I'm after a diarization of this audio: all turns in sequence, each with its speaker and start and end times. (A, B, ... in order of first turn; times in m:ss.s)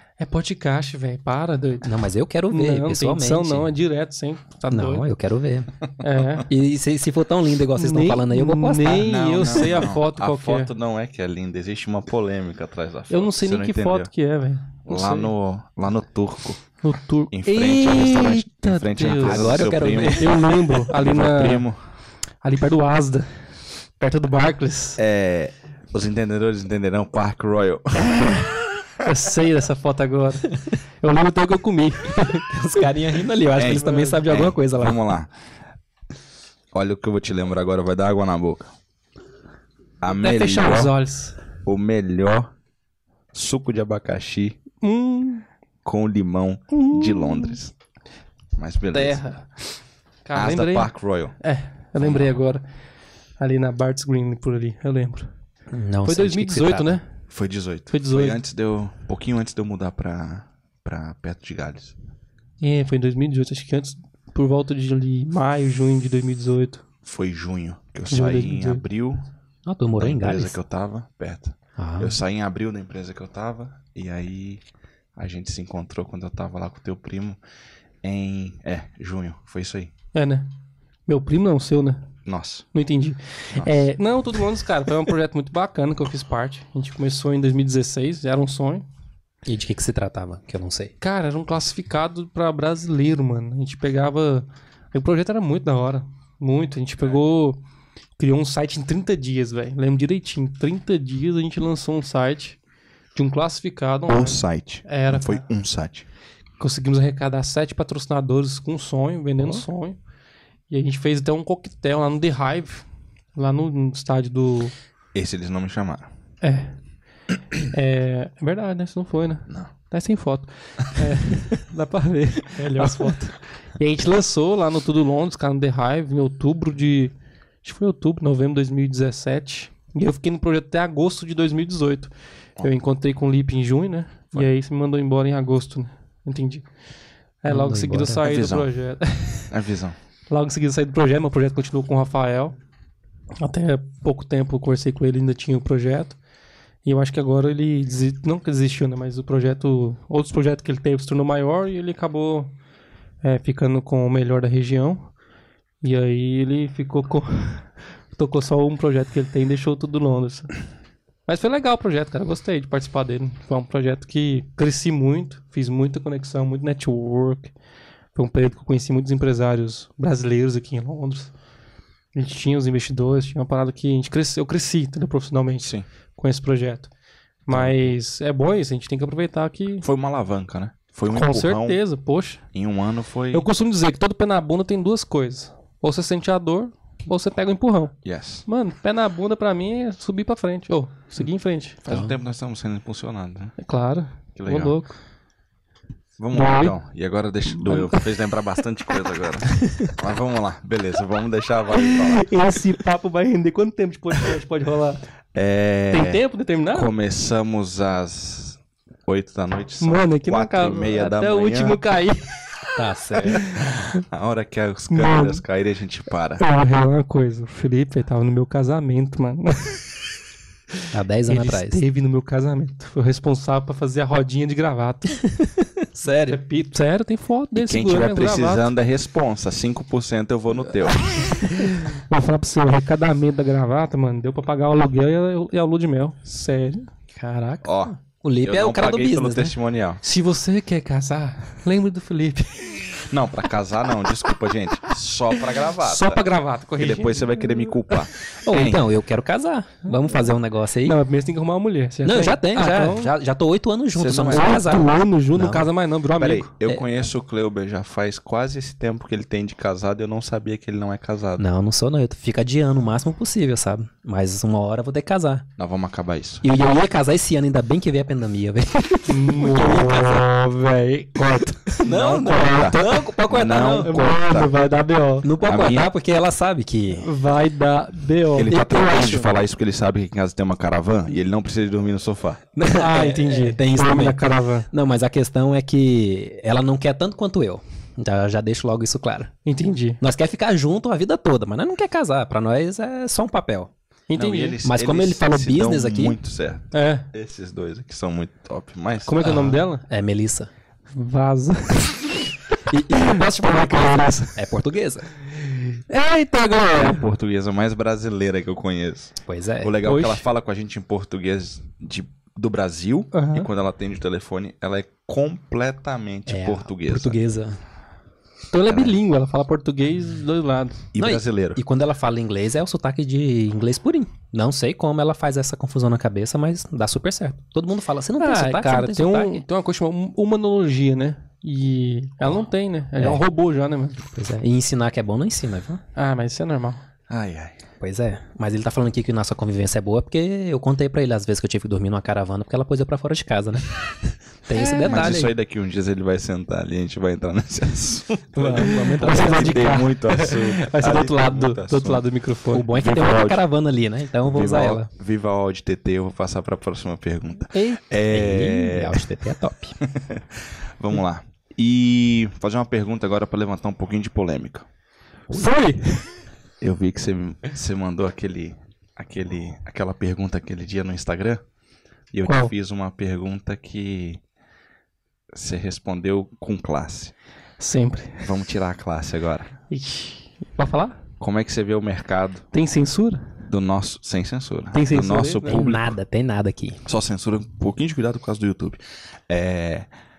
0:00.2-0:02.0 A
0:01.8-0:03.7 B
0:02.5-0:05.1 A
0:04.7-0:05.7 B
0:06.0-0:06.5 A
0:06.5-0:09.1 B
0:07.8-0:10.7 A
0:08.9-0:14.1 C
0:13.1-0:15.3 A
0:14.9-0:16.6 C
0:16.8-0:21.6 A
0:17.3-0:21.8 C
0:19.2-0:20.6 B
0:22.4-0:23.3 A
0:24.0-0:25.0 A
0:25.0-0:28.6 C
0:29.0-0:32.4 A
0:32.2-0:35.0 B
0:33.6-0:35.3 C
0:36.7-0:38.7 C
0:40.0-0:41.0 C
0:40.1-0:41.4 A
0:41.6-0:42.5 C
0:43.3-0:44.6 C
0:44.8-0:45.4 A
0:45.8-0:47.7 C
0:46.7-0:47.6 A
0:48.6-0:49.2 C
0:48.9-0:49.6 A
0:50.2-0:52.6 A
0:50.4-0:51.4 C
0:52.0-0:52.4 C
0:53.4-0:55.3 A
0:55.7-0:57.0 B
0:56.0-0:57.0 A
0:57.3-1:02.0 C
0:57.9-0:58.4 A
1:02.6-1:06.8 A
1:07.0-1:09.2 C
1:08.1-1:08.8 A
1:09.6-1:10.6 B
1:10.0-1:14.6 C
1:11.8-1:12.2 B
1:15.2-1:17.4 C
1:18.0-1:19.9 C
1:20.1-1:20.5 A
1:21.1-1:22.1 A
1:22.3-1:22.7 C
1:22.7-1:28.9 A
1:29.5-1:30.9 B
1:31.0-1:37.6 A
1:38.2-1:42.6 A
1:43.2-1:45.4 A
1:44.1-1:46.1 C
1:46.6-1:50.0 A
1:50.7-1:52.8 A
1:53.4-1:54.7 A
1:55.1-1:56.1 C
1:56.4-1:56.8 A
1:57.7-2:07.1 A
2:02.6-2:03.3 B
2:07.6-2:16.6 A
2:17.4-2:19.5 A
2:17.5-2:18.2 B
2:18.2-2:18.7 C
2:19.5-2:20.0 C
2:20.3-2:22.5 A
2:23.4-2:26.2 A
2:26.8-2:32.5 A
2:33.2-2:35.1 A
2:35.8-2:40.5 A
2:41.3-2:47.5 A
2:48.2-2:51.3 A
2:52.2-2:56.9 A
2:57.5-2:59.9 A
2:57.5-2:57.9 C
2:59.8-3:01.8 C
3:01.1-3:02.4 A
3:02.5-3:03.4 C
3:03.3-3:07.9 A
3:08.0-3:08.4 C
3:08.5-3:12.0 A
3:11.9-3:13.6 C
3:13.6-3:15.0 A
3:14.4-3:14.8 C
3:16.2-3:22.3 C
3:16.3-3:16.8 A
3:17.5-3:18.0 A
3:21.8-3:25.0 A
3:25.4-3:31.8 C
3:25.9-3:26.9 A
3:29.8-3:32.5 A
3:32.8-3:33.4 B
3:33.2-3:33.9 A
3:33.4-3:36.4 C
3:34.9-3:35.4 A
3:36.4-3:39.8 A
3:40.9-3:41.8 B
3:41.3-3:45.2 A
3:45.8-3:46.4 B
3:46.3-3:48.7 A
3:47.6-3:51.0 C
3:50.9-3:56.9 A
3:57.2-3:59.6 B
3:57.6-4:00.0 C
4:00.0-4:03.0 A
4:03.1-4:06.2 C
4:05.8-4:07.3 A
4:06.8-4:08.9 C
4:08.4-4:11.0 B
4:10.8-4:13.1 A
4:12.0-4:15.7 B
4:14.0-4:14.9 C
4:14.2-4:16.5 A
4:16.2-4:21.5 C
4:21.4-4:25.5 B
4:25.6-4:26.4 C
4:26.4-4:30.2 B
4:29.1-4:31.8 A
4:31.8-4:34.0 B
4:31.8-4:34.6 C
4:32.3-4:32.6 A
4:33.8-4:35.3 A
4:35.2-4:37.1 B
4:35.4-4:35.9 C
4:37.0-4:38.7 A
4:38.4-4:42.4 C
4:38.5-4:39.4 B
4:42.6-4:49.3 B
4:42.7-4:44.7 A
4:49.4-4:50.0 A
4:50.0-4:53.7 B
4:54.1-4:54.6 A
4:54.2-4:59.3 C
4:54.6-4:56.2 B
4:56.7-4:57.1 A
4:59.1-4:59.8 A
4:59.2-5:00.5 B
5:00.9-5:04.4 A
5:02.7-5:03.6 B
5:04.3-5:05.1 B
5:05.4-5:07.0 A
5:06.8-5:17.2 C
5:09.3-5:09.8 B
5:09.8-5:10.2 A
5:13.1-5:13.5 A
5:16.3-5:17.6 B
5:18.5-5:20.8 A
5:18.7-5:19.0 C
5:20.9-5:21.6 C
5:21.0-5:29.4 B
5:28.2-5:34.0 A
5:33.0-5:33.2 B
5:34.1-5:35.8 B
5:36.0-5:36.8 A
5:37.1-5:37.6 C
5:37.8-5:45.3 B
5:44.6-5:45.0 A
5:44.8-5:52.0 C
5:48.3-5:49.8 B
5:48.4-5:52.7 A
5:52.5-5:54.9 B
5:52.7-5:53.4 C
5:54.2-5:59.0 C
5:57.5-5:57.8 A
5:58.1-5:59.8 B
5:59.8-6:04.7 C
6:05.3-6:06.1 A
6:06.6-6:11.4 C
6:12.1-6:14.2 C
6:12.3-6:12.5 A
6:15.3-6:17.1 C
6:17.6-6:18.3 A
6:18.2-6:19.5 C
6:19.7-6:21.0 A
6:21.2-6:22.4 C
6:22.5-6:23.3 A
6:23.5-6:25.9 C
6:24.7-6:25.6 A
6:25.5-6:26.8 B
6:26.9-6:29.9 C